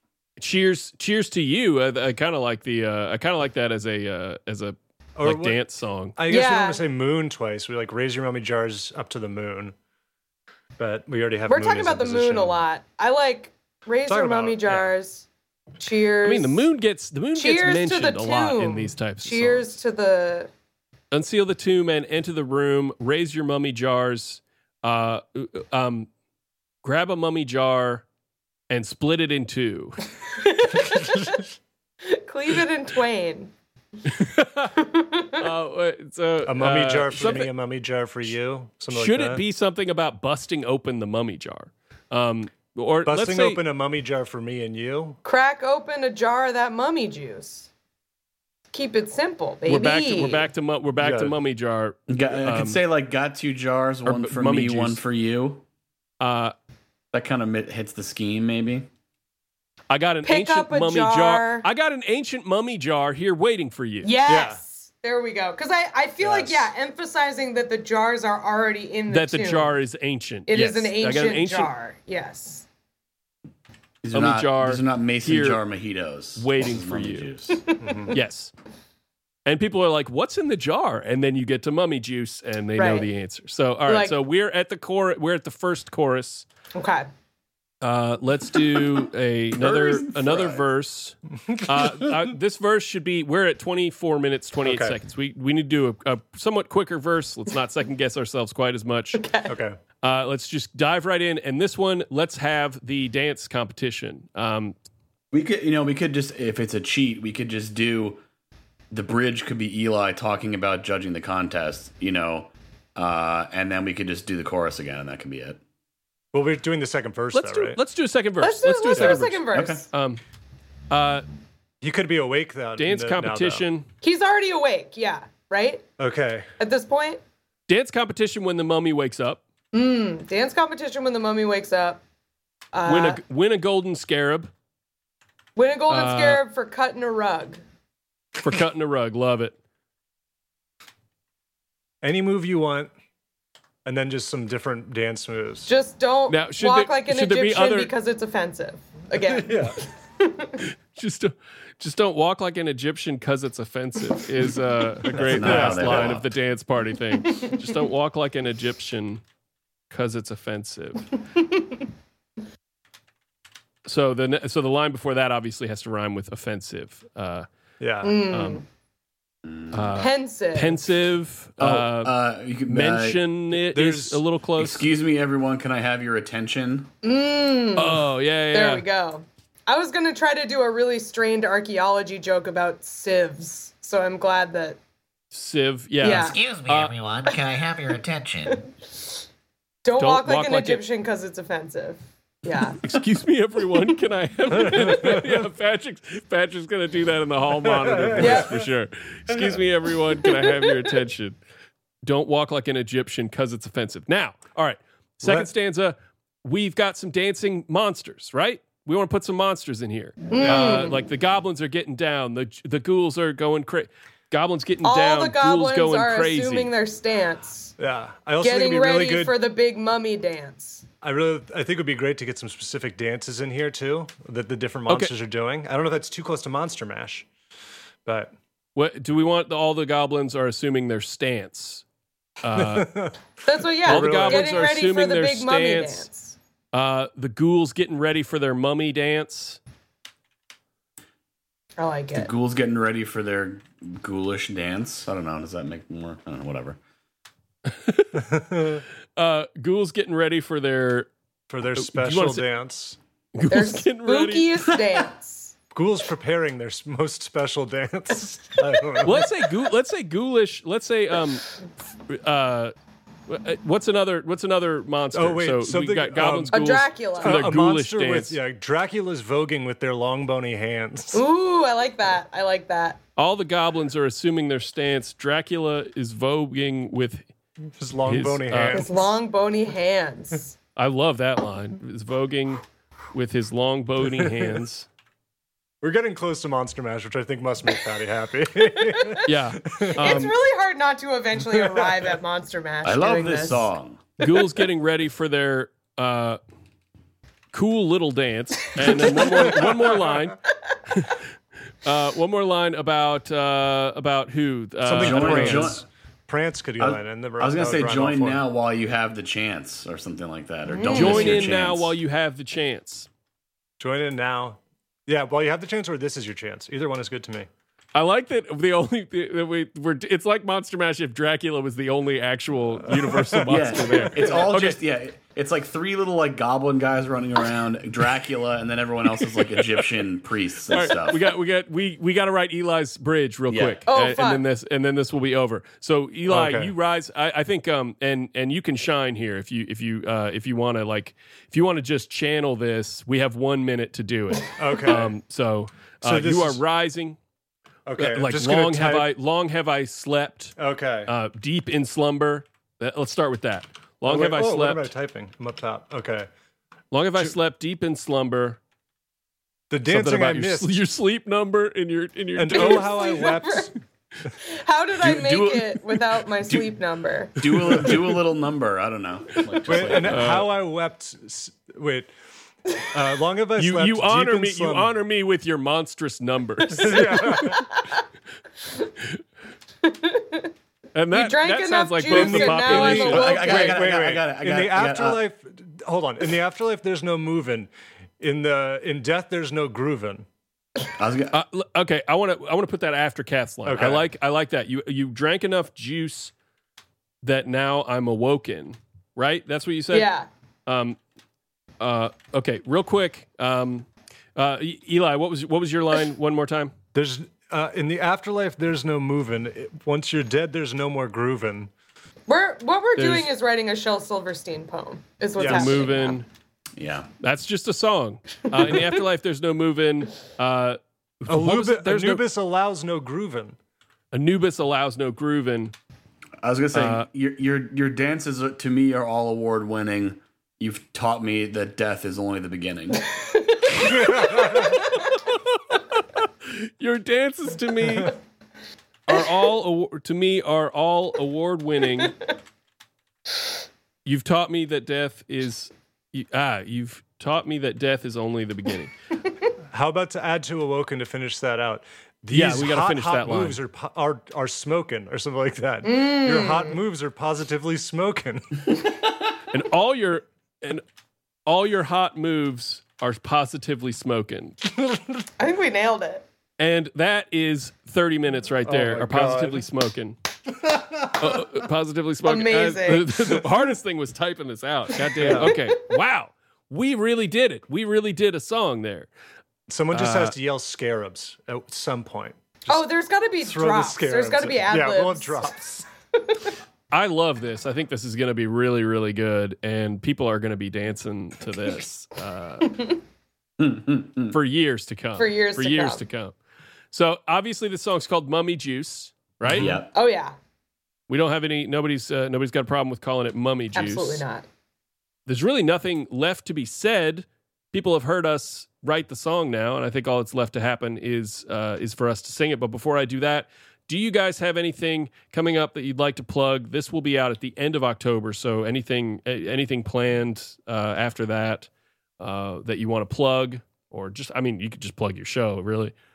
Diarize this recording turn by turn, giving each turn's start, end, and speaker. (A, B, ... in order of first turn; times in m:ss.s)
0:00.4-0:06.2 A
0:05.2-0:05.6 B
0:06.2-0:09.7 B
0:06.3-0:06.8 C
0:10.8-0:12.6 B
0:11.5-0:15.2 C
0:14.1-0:14.9 B
0:15.8-0:16.7 C
0:16.2-0:19.8 A
0:17.3-0:20.5 C
0:21.1-0:26.1 A
0:26.8-0:28.0 A
0:28.7-0:30.0 A
0:30.4-0:31.4 C
0:32.0-0:33.5 C
0:34.0-0:34.8 A
0:34.7-0:35.5 C
0:35.4-0:37.5 A
0:36.4-0:39.4 B
0:38.9-0:43.6 A
0:43.0-0:45.2 B
0:45.2-0:47.7 C
0:48.7-0:50.5 C
0:49.6-0:52.8 A
0:51.0-0:51.3 B
0:52.1-0:55.6 D
0:54.0-0:55.0 A
0:56.2-0:56.5 A
0:57.1-0:58.9 D
0:59.9-1:04.1 A
1:00.2-1:01.6 C
1:04.0-1:09.8 C
1:04.3-1:04.6 B
1:06.2-1:06.6 B
1:09.1-1:11.7 A
1:10.5-1:12.6 C
1:14.0-1:17.6 D
1:14.1-1:15.6 A
1:16.4-1:17.3 A
1:17.8-1:18.1 B
1:18.1-1:18.5 A
1:19.4-1:26.4 A
1:22.8-1:23.1 C
1:23.8-1:24.2 C
1:26.7-1:27.1 C
1:27.8-1:39.2 A
1:29.6-1:30.6 D
1:31.5-1:32.2 B
1:34.6-1:35.0 B
1:39.1-1:39.5 C
1:39.5-1:39.8 B
1:40.0-1:44.7 A
1:45.3-1:48.2 D
1:48.9-1:55.6 D
1:56.3-1:57.8 B
1:57.3-2:00.2 A
1:58.4-1:59.8 C
1:59.5-1:59.8 D
2:00.9-2:01.2 A
2:01.8-2:03.6 B
2:02.8-2:03.9 A
2:04.0-2:05.8 C
2:06.0-2:06.5 B
2:06.6-2:07.2 C
2:07.7-2:09.4 A
2:09.7-2:12.0 C
2:12.7-2:13.2 C
2:12.8-2:14.5 A
2:15.6-2:17.6 C
2:15.9-2:16.4 A
2:18.4-2:19.6 A
2:22.0-2:22.9 B
2:23.8-2:25.7 B
2:25.6-2:30.6 C
2:26.3-2:27.9 A
2:29.1-2:29.8 B
2:30.9-2:39.2 A
2:35.1-2:36.3 D
2:35.2-2:36.2 B
2:37.3-2:37.6 C
2:39.9-2:41.1 A
2:43.8-2:47.5 A
2:47.8-2:48.2 B
2:48.0-2:48.6 C
2:48.3-2:48.6 A
2:49.4-2:50.0 D
2:49.7-2:52.1 A
2:49.9-2:50.8 C
2:51.6-2:53.2 D
2:52.7-2:54.8 A
2:53.6-2:54.2 B
2:54.6-2:56.9 D
2:57.0-3:04.8 C
2:57.8-2:58.8 A
3:05.3-3:06.9 A
3:06.0-3:06.4 C
3:06.0-3:08.7 E
3:08.5-3:09.1 C
3:09.8-3:12.8 C
3:10.0-3:10.8 A
3:12.8-3:21.4 A
3:14.9-3:15.2 B
3:17.6-3:18.6 B
3:18.2-3:18.5 C
3:20.3-3:20.6 C
3:22.0-3:36.7 A
3:25.2-3:25.5 B
3:30.3-3:31.0 C
3:34.8-3:37.7 C
3:37.8-3:39.4 B
3:38.4-3:40.8 C
3:41.0-3:47.3 B
3:44.9-3:45.1 A
3:48.0-3:48.3 B
3:48.7-3:51.8 A
3:52.4-3:53.0 A
3:52.5-3:53.2 B
3:53.4-3:56.4 C
3:53.8-3:54.7 B
3:53.8-3:56.1 A
3:56.7-3:59.6 A
4:01.8-4:02.3 C
4:02.1-4:06.8 D
4:07.6-4:08.3 A
4:08.1-4:08.8 B
4:09.2-4:11.1 A
4:11.5-4:13.0 B
4:11.8-4:12.5 A
4:13.3-4:14.7 A
4:13.5-4:15.5 C
4:15.7-4:19.3 B
4:19.0-4:21.6 A
4:22.1-4:22.7 A
4:23.3-4:28.4 A
4:25.1-4:31.2 B
4:26.5-4:27.5 C
4:31.1-4:33.0 C
4:33.2-4:37.2 A
4:37.8-4:39.1 B
4:38.0-4:38.9 A
4:38.7-4:40.5 C
4:40.8-4:44.9 A
4:45.8-4:50.2 B
4:48.9-4:49.2 C
4:49.2-4:50.3 A
4:50.0-4:53.7 C
4:52.8-4:54.1 D
4:54.2-4:56.4 A
4:57.5-5:01.2 A
4:58.8-5:00.1 B
5:01.8-5:05.8 A
5:04.8-5:08.4 B
5:04.9-5:05.8 D
5:06.8-5:12.0 D
5:10.6-5:11.5 C
5:10.9-5:13.1 A
5:13.8-5:17.5 B
5:17.9-5:24.8 A
5:22.9-5:24.2 B
5:23.4-5:31.3 D
5:30.7-5:47.2 A
5:33.5-5:33.8 D
5:33.9-5:34.4 C
5:36.3-5:36.7 B
5:44.5-5:45.1 B
5:46.0-5:46.6 B
5:47.8-5:49.1 B
5:48.0-5:54.9 A
5:50.6-5:51.1 B
5:54.1-5:56.3 B
5:56.9-5:58.6 A
5:59.7-6:00.8 B
5:59.8-6:03.3 A
6:02.4-6:03.8 B
6:02.5-6:03.7 C
6:04.4-6:07.9 C
6:05.0-6:05.8 D
6:06.4-6:06.7 D
6:07.4-6:10.4 D
6:09.4-6:10.5 A
6:09.7-6:12.1 B
6:12.8-6:14.9 B
6:13.6-6:17.7 A
6:16.7-6:17.8 B
6:19.8-6:20.5 C
6:20.9-6:23.4 A
6:21.1-6:23.8 C
6:22.1-6:30.2 B
6:22.9-6:25.2 D
6:31.0-6:31.4 D
6:31.3-6:36.3 A
6:33.6-6:34.0 B
6:37.2-6:40.1 A
6:39.9-6:40.3 C
6:40.7-6:41.0 A
6:41.8-6:46.7 A
6:46.9-6:51.7 B
6:52.3-6:56.2 C
6:53.0-6:53.3 A
6:55.4-6:55.8 B
6:55.4-6:56.2 A
6:56.8-6:57.1 D
6:57.2-7:02.2 A
7:01.3-7:03.6 B
7:04.1-7:05.7 A
7:06.4-7:13.1 D
7:06.7-7:07.1 A
7:13.2-7:13.8 C
7:14.3-7:18.2 A
7:14.5-7:14.8 C
7:19.1-7:22.1 A
7:24.0-7:28.9 A
7:29.7-7:38.7 B
7:32.3-7:33.6 A
7:35.8-7:36.8 C
7:39.5-7:40.8 A
7:41.4-7:44.6 A
7:45.4-7:46.2 C
7:46.6-7:50.1 A
7:48.6-7:49.6 B
7:50.7-7:51.4 B
7:51.2-7:59.1 A
7:52.2-7:53.1 C
7:55.2-7:55.6 B
7:55.2-7:55.6 C
7:59.7-8:02.8 B
7:59.9-8:00.3 A
8:02.7-8:06.4 C
8:03.4-8:05.8 B
8:06.9-8:12.8 A
8:12.7-8:13.0 C
8:13.6-8:14.4 D
8:14.3-8:16.4 A
8:15.2-8:16.0 C
8:16.9-8:19.8 A
8:19.5-8:19.9 D
8:19.9-8:20.3 C
8:21.1-8:24.2 A
8:23.7-8:24.4 C
8:25.3-8:45.9 A